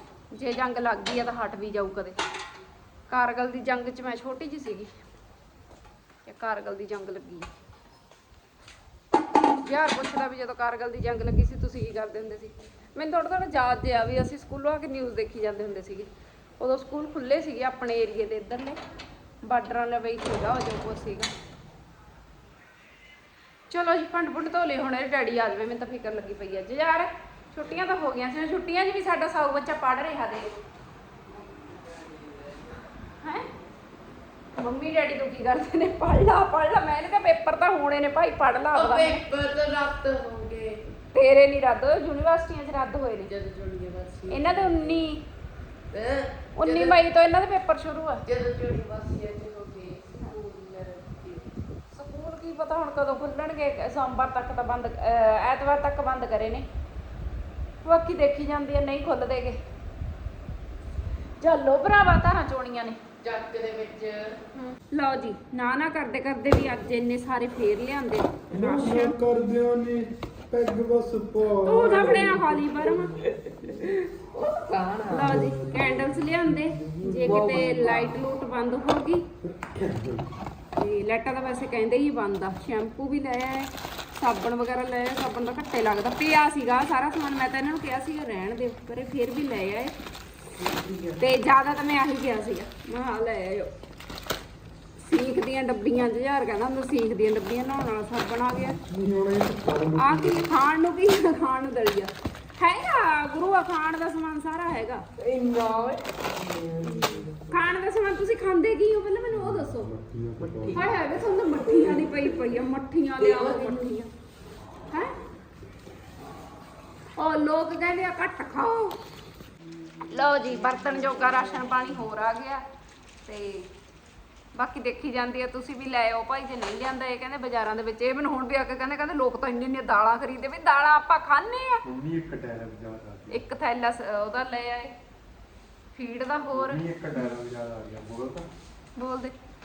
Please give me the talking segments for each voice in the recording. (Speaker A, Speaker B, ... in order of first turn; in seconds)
Speaker A: 0.3-2.2, 3.1-4.9, 6.3-7.5, 9.6-16.1, 16.6-18.8, 19.4-21.3, 23.7-30.5, 33.2-33.5, 34.6-39.2, 41.1-43.3, 44.3-45.2, 46.6-48.2, 51.9-56.7, 57.8-59.6, 61.4-63.0, 64.5-69.2, 71.6-73.2, 75.1-79.3, 80.8-89.9, 91.2-93.7, 95.0-98.8, 100.0-105.1, 106.8-109.9, 110.8-114.1, 114.9-115.2, 117.2-119.0, 120.1-122.6, 123.2-123.7, 124.5-131.8, 133.3-134.9, 135.9-136.8, 139.0-139.3
Speaker B: 31.6-32.8, 38.7-40.8, 43.3-45.0, 45.9-47.0, 48.2-51.5, 63.2-64.4, 72.2-75.4, 77.0-78.2, 90.6-91.3, 105.2-107.6, 110.4-112.3, 113.2-113.9, 120.8-121.1
Speaker C: 68.5-72.5, 75.2-78.0, 79.6-80.2, 98.6-100.5, 109.3-111.3, 131.8-133.4, 136.5-138.5